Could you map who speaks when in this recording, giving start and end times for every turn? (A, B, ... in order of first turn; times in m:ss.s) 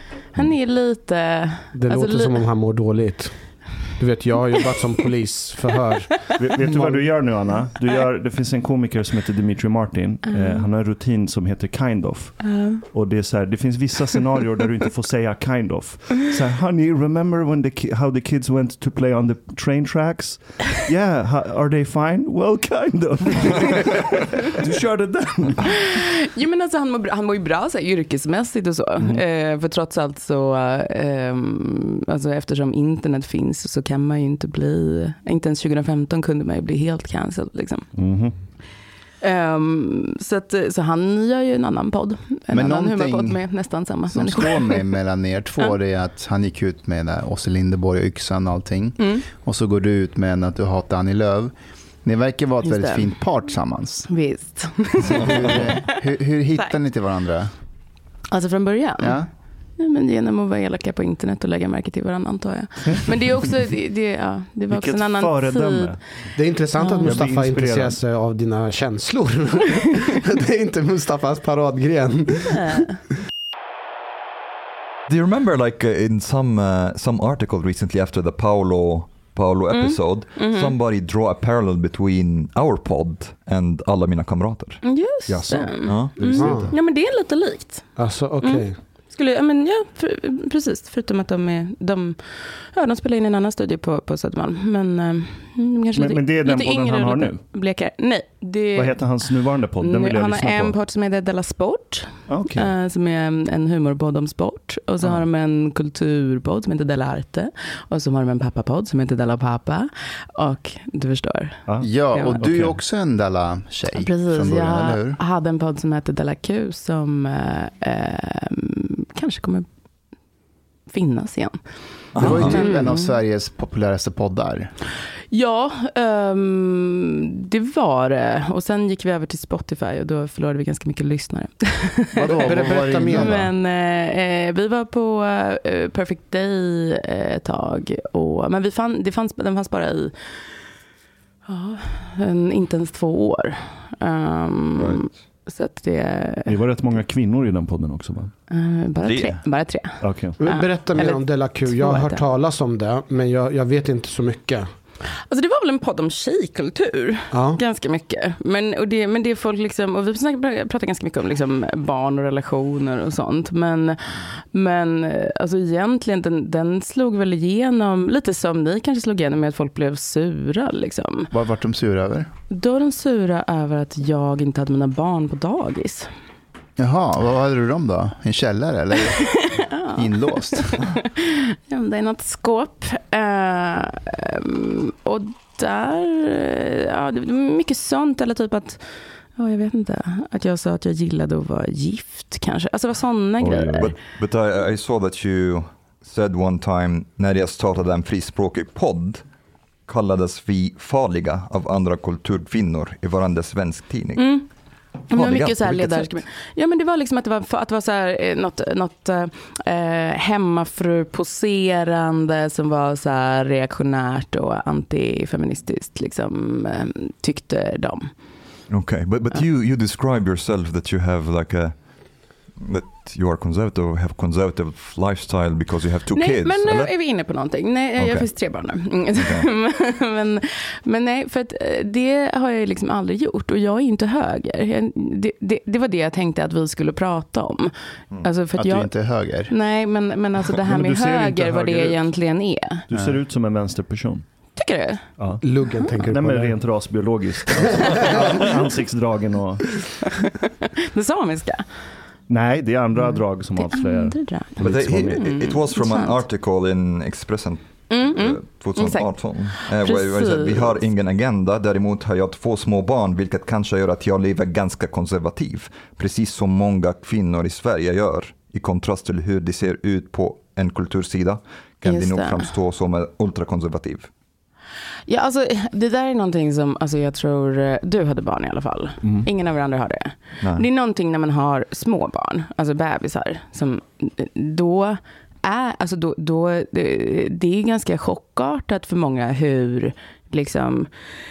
0:00.3-0:02.4 A
0:01.7-0:03.4 B
0:04.0-0:07.1 B
0:06.4-0:25.8 C
0:10.3-0:10.7 A
0:12.4-0:12.8 A
0:25.6-0:37.9 A
0:38.0-0:38.4 C
0:39.2-0:44.8 A
0:42.5-0:43.4 D
0:44.1-0:51.5 D
0:49.0-0:49.3 A
0:52.0-0:54.1 D
0:52.6-0:53.1 A
0:54.1-0:55.8 A
0:55.1-0:57.5 D
0:58.3-0:59.2 A
0:59.0-0:59.3 D
0:59.8-1:06.0 A
1:04.7-1:06.0 C
1:06.4-1:12.8 B
1:06.8-1:07.2 A
1:07.0-1:08.0 C
1:12.5-1:13.0 A
1:15.1-1:26.6 E
1:19.7-1:20.7 A
1:24.8-1:27.9 A
1:25.4-1:26.7 C
1:26.3-1:26.7 B
1:28.0-1:28.8 B
1:28.4-1:39.2 A
1:36.0-1:37.4 C
1:38.8-1:40.8 C
1:39.8-1:51.6 A
1:42.3-1:42.7 C
1:51.8-1:55.2 D
1:52.1-1:52.4 A
1:52.4-1:52.8 C
1:53.9-1:59.7 A
2:00.9-2:01.6 A
2:02.2-2:02.7 E
2:02.2-2:04.7 D
2:02.4-2:03.1 A
2:05.3-2:12.6 A
2:12.2-2:13.5 D
2:12.4-2:13.4 B
2:13.1-2:20.1 A
2:21.5-2:26.6 A
2:24.8-2:25.0 E
2:26.5-2:28.3 C
2:28.5-2:32.2 A
2:29.0-2:29.4 E
2:30.0-2:30.4 C
2:30.4-2:34.7 B
2:35.3-2:51.3 A
2:37.3-2:37.6 B
2:51.3-2:52.3 D
2:52.5-2:56.1 A
2:56.8-2:59.4 D
2:59.3-3:08.8 A
2:59.9-3:00.8 D
3:09.4-3:13.9 A
3:13.4-3:13.9 C
3:13.8-3:19.2 E
3:19.9-3:24.4 E
3:24.2-3:24.4 A
3:25.1-3:38.1 A
3:25.1-3:26.2 E
3:38.7-3:41.8 E
3:42.5-3:47.2 E
3:46.1-3:58.9 A
3:48.0-3:48.4 E
3:49.2-3:49.5 E
3:58.5-3:59.5 D
3:59.5-4:02.8 A
4:00.7-4:02.1 C
4:02.9-4:04.2 C
4:04.6-4:05.0 A
4:05.2-4:05.4 C
4:05.4-4:06.6 B
4:06.0-4:09.8 C
4:07.8-4:08.4 B
4:10.1-4:11.6 A
4:12.3-4:15.1 C
4:13.1-4:16.2 A
4:14.6-4:34.1 E
4:17.9-4:20.8 A
4:31.8-4:32.5 A
4:35.1-4:50.9 A
4:40.4-4:40.7 E